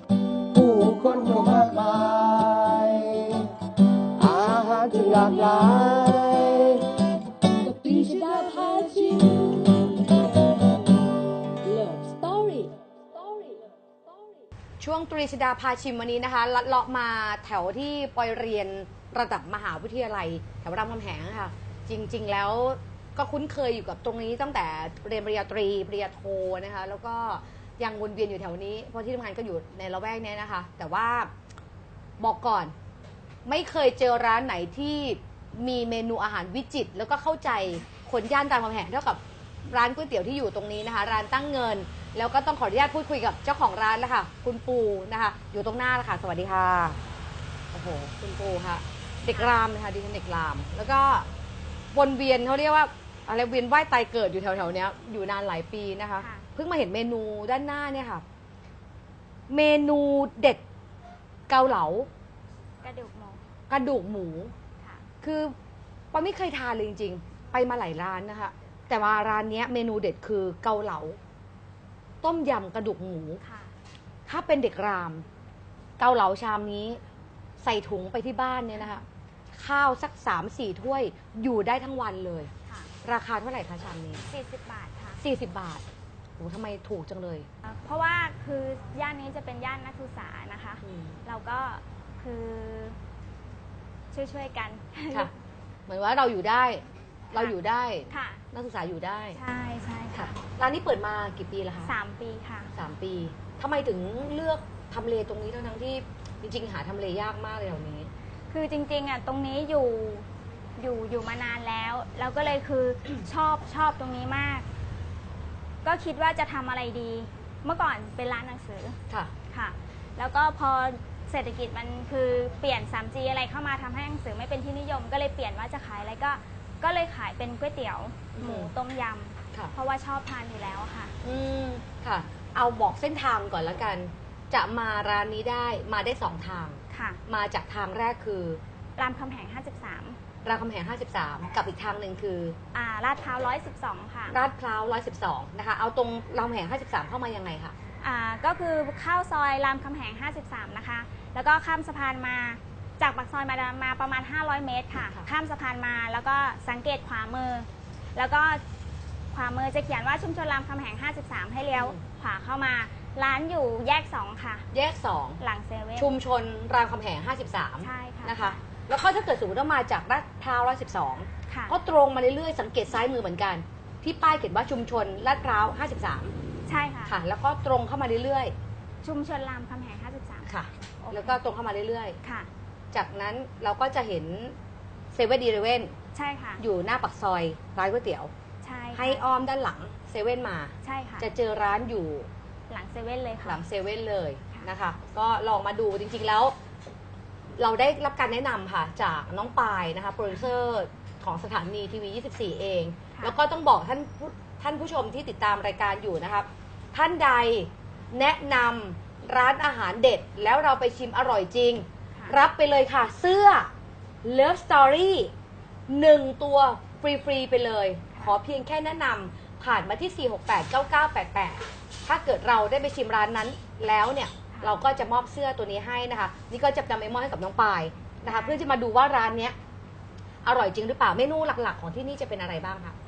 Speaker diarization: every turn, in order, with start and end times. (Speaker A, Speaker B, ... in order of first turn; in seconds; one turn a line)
Speaker A: 0.5-3.5
Speaker A: 4.2-5.7
Speaker B: 4.3-6.8
Speaker B: 7.6-11.1
Speaker B: 11.6-14.4
Speaker C: 14.8-31.3
Speaker C: 32.2-32.7
Speaker C: 33.4-47.0
Speaker C: 47.7-51.3
Speaker C: 51.9-58.2
Speaker D: 56.2-56.5
Speaker C: 59.5-60.6
Speaker C: 61.5-62.1
Speaker D: 62.8-63.4
Speaker C: 63.7-64.5
Speaker D: 64.8-65.0
Speaker C: 65.2-65.5
Speaker C: 66.1-71.2
Speaker C: 72.2-73.4
Speaker D: 73.4-73.7
Speaker C: 74.3-75.2
Speaker C: 76.0-77.0
Speaker C: 77.6-79.0
Speaker C: 79.5-82.5
Speaker D: 82.6-82.9
Speaker C: 83.0-84.2
Speaker D: 84.3-85.2
Speaker C: 85.2-85.8
Speaker C: 86.4-87.5
Speaker D: 87.6-93.0
Speaker C: 90.8-91.2
Speaker D: 94.1-95.3
Speaker C: 95.9-99.4
Speaker D: 98.1-98.4
Speaker D: 99.3-100.3
Speaker C: 100.1-101.9
Speaker D: 101.8-102.7
Speaker C: 102.7-108.1
Speaker D: 108.5-110.3
Speaker D: 110.8-114.7
Speaker D: 115.8-119.0
Speaker D: 119.5-131.1
Speaker C: 128.3-128.7
Speaker C: 131.2-138.6
Speaker D: 136.9-137.2
Speaker D: 139.0-140.2
Speaker C: 140.4-142.6
Speaker D: 142.7-144.4
Speaker C: 144.3-147.7
Speaker D: 148.0-158.6
Speaker D: 159.3-164.7
Speaker C: 161.7-162.0
Speaker C: 164.7-165.4
Speaker D: 165.4-166.1
Speaker C: 166.0-176.3
Speaker D: 167.8-168.6
Speaker D: 171.5-171.8
Speaker D: 176.7-177.2
Speaker C: 177.1-178.5
Speaker D: 179.0-181.4
Speaker C: 180.4-182.2
Speaker D: 182.2-182.5
Speaker C: 182.9-184.5
Speaker C: 185.1-185.9
Speaker D: 186.1-186.6
Speaker C: 186.6-188.3
Speaker D: 188.6-189.2
Speaker C: 188.9-192.3
Speaker D: 190.8-191.3
Speaker D: 192.7-193.6
Speaker C: 193.4-196.5
Speaker C: 197.6-213.7
Speaker C: 214.2-215.3
Speaker C: 215.9-229.6
Speaker D: 224.5-224.8
Speaker D: 228.2-228.6
Speaker C: 230.4-232.9